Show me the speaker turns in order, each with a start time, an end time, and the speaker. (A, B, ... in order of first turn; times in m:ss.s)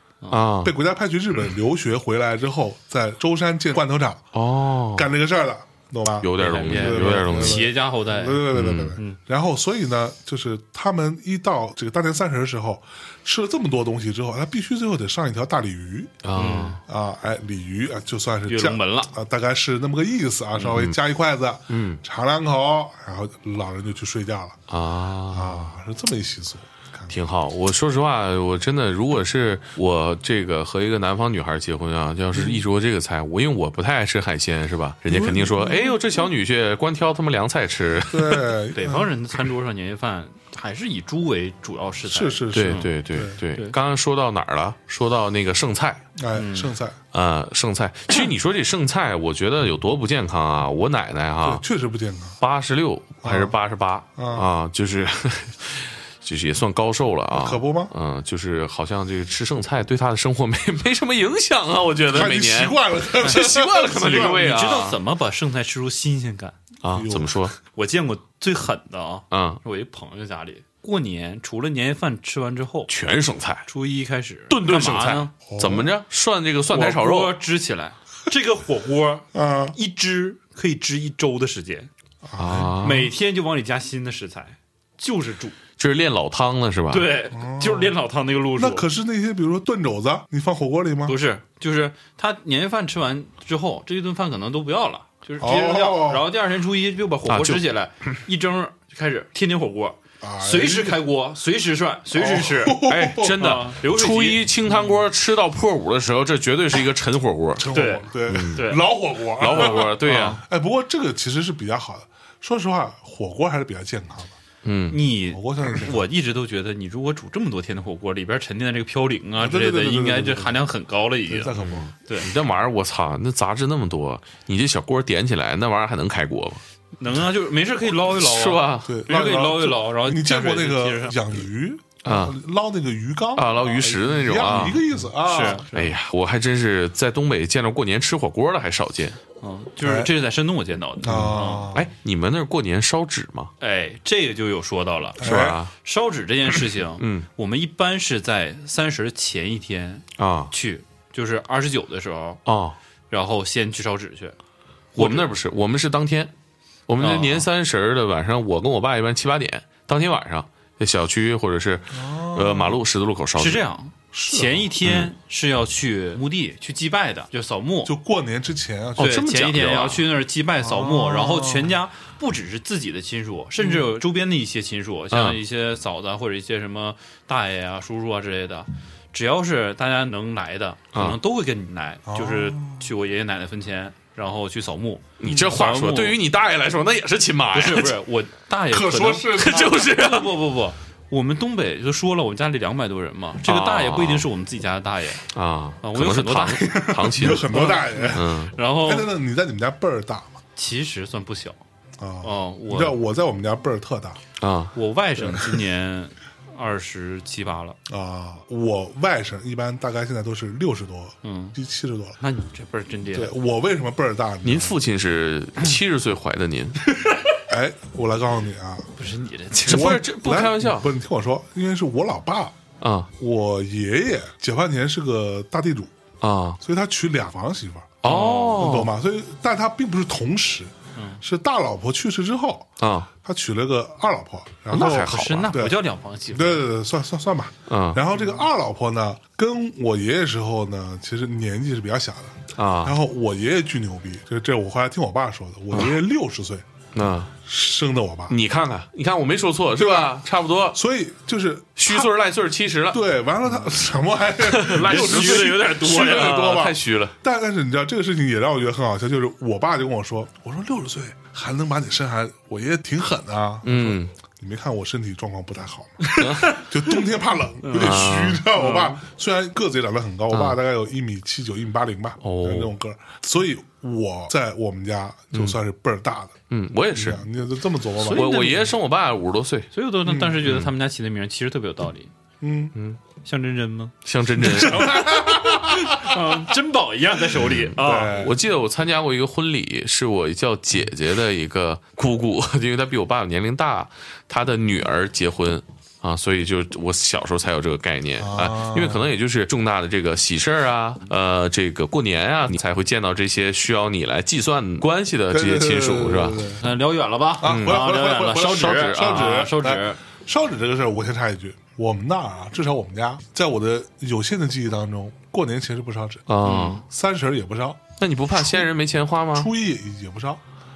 0:00.3-0:00.7 A
0:00.6-0:04.2 B
0:04.3-0:05.1 A
0:04.9-0:16.2 B
0:06.2-0:07.7 A
0:06.4-0:09.2 C
0:08.5-0:09.0 A
0:16.2-0:16.8 A
0:16.4-0:16.8 C
0:16.8-0:24.6 B
0:18.5-0:19.1 C
0:20.6-0:21.0 A
0:21.7-0:22.0 A
0:24.7-0:25.7 A
0:25.3-0:27.2 B
0:27.1-0:38.5 A
0:32.3-0:32.6 B
0:35.1-0:36.0 B
0:38.1-0:39.1 B
0:38.7-0:42.9 C
0:42.1-0:43.4 B
0:42.5-0:46.0 A
0:46.2-0:47.0 B
0:46.3-0:46.7 C
0:47.1-0:51.6 A
0:51.4-0:52.4 B
0:52.4-1:05.0 A
0:53.2-0:53.5 B
0:54.2-0:54.5 B
0:57.3-0:57.9 B
1:02.1-1:04.4 B
1:03.2-1:06.6 C
1:06.8-1:07.5 A
1:06.9-1:07.5 B
1:07.7-1:12.9 C
1:09.3-1:09.6 A
1:12.9-1:13.7 A
1:13.7-1:15.3 C
1:14.5-1:17.4 A
1:15.4-1:15.9 B
1:16.7-1:21.9 C
1:19.3-1:19.8 B
1:22.2-1:22.9 B
1:22.4-1:23.1 A
1:22.8-1:25.6 C
1:25.8-1:27.1 A
1:26.9-1:28.9 C
1:27.3-1:28.0 B
1:28.6-1:31.2 B
1:31.0-1:42.8 C
1:35.4-1:36.3 B
1:37.3-1:37.6 A
1:40.2-1:41.0 B
1:42.1-1:43.4 B
1:42.8-1:47.7 A
1:43.3-1:44.9 C
1:47.6-1:54.4 B
1:47.7-1:48.8 C
1:48.3-1:48.6 A
1:49.4-1:50.4 A
1:49.5-1:50.4 C
1:54.6-1:55.0 A
1:54.9-2:02.3 C
1:55.3-1:56.0 B
1:59.4-2:00.6 B
2:01.3-2:01.9 B
2:02.1-2:06.6 A
2:07.0-2:11.4 C
2:08.1-2:08.9 A
2:08.8-2:15.6 B
2:12.0-2:12.4 A
2:13.4-2:14.8 A
2:15.2-2:15.9 C
2:15.7-2:19.2 A
2:19.4-2:21.7 C
2:19.8-2:20.1 B
2:21.0-2:21.9 B
2:21.7-2:23.5 A
2:23.6-2:32.4 C
2:25.2-2:25.6 B
2:25.2-2:25.7 A
2:27.0-2:27.2 A
2:30.2-2:30.5 A
2:32.4-2:32.8 A
2:33.1-2:34.4 C
2:34.9-2:35.3 C
2:35.0-2:36.3 A
2:36.9-2:43.6 A
2:37.0-2:37.5 C
2:41.9-2:42.8 B
2:43.4-2:47.9 C
2:44.1-2:44.7 B
2:44.8-2:45.1 A
2:47.8-2:49.2 B
2:49.0-2:50.0 A
2:49.0-3:06.2 C
2:50.6-2:51.8 B
2:55.1-2:55.4 A
3:00.9-3:01.2 A
3:02.0-3:02.9 B
3:05.2-3:08.0 A
3:07.5-3:15.2 C
3:08.7-3:09.8 B
3:09.3-3:10.4 A
3:13.4-3:14.3 A
3:15.3-3:18.5 A
3:15.8-3:19.1 C
3:16.7-3:20.4 B
3:20.6-3:21.6 C
3:22.0-3:24.2 B
3:22.2-3:23.0 C
3:24.4-3:24.7 A
3:24.7-3:27.8 C
3:25.2-3:25.6 B
3:27.9-3:32.2 B
3:31.2-3:31.6 C
3:32.2-3:33.4 C
3:33.1-3:34.8 B
3:34.4-3:36.8 A
3:37.5-3:38.9 B
3:39.0-3:40.0 C
3:39.6-3:40.9 A
3:39.6-3:42.5 B
3:42.8-3:43.1 A
3:43.2-3:45.9 B
3:46.2-3:46.6 A
3:46.6-3:48.0 B
3:48.0-3:48.9 A
3:48.0-3:48.7 C
3:48.6-3:55.8 B
3:50.9-3:51.2 C
3:52.8-3:53.1 A
3:54.7-3:55.6 A
3:54.7-3:56.7 C
3:56.3-4:06.6 B
3:57.7-3:58.0 A
4:02.6-4:03.0 A
4:05.7-4:06.0 A
4:06.9-4:07.3 A
4:07.4-4:08.4 B
4:08.3-4:10.8 A
4:09.7-4:10.2 B
4:10.7-4:12.1 B
4:11.8-4:13.0 A
4:12.9-4:36.4 B
4:14.4-4:17.1 A
4:14.6-4:16.4 C
4:23.6-4:24.1 A
4:26.1-4:26.6 C
4:26.2-4:26.5 A
4:27.6-4:29.0 C
4:27.7-4:28.4 A
4:30.3-4:30.6 A
4:32.2-4:32.7 A
4:36.5-4:37.2 A
4:36.9-4:38.3 B
4:38.0-4:38.7 C
4:38.0-4:39.7 A
4:39.7-4:42.1 C
4:40.0-4:40.4 B
4:40.4-4:40.7 A
4:42.4-4:42.7 B
4:43.2-4:48.3 C
4:44.0-4:45.0 A
4:44.4-4:46.2 B
4:47.4-5:06.4 A
4:47.8-4:48.4 B
4:58.2-4:59.1 B
5:05.3-5:06.6 B
5:06.6-5:10.0 C
5:07.4-5:16.3 B
5:07.4-5:09.4 A
5:16.3-5:16.8 A
5:16.4-5:16.8 C
5:16.8-5:18.7 B
5:18.0-5:19.5 A
5:19.3-5:20.4 B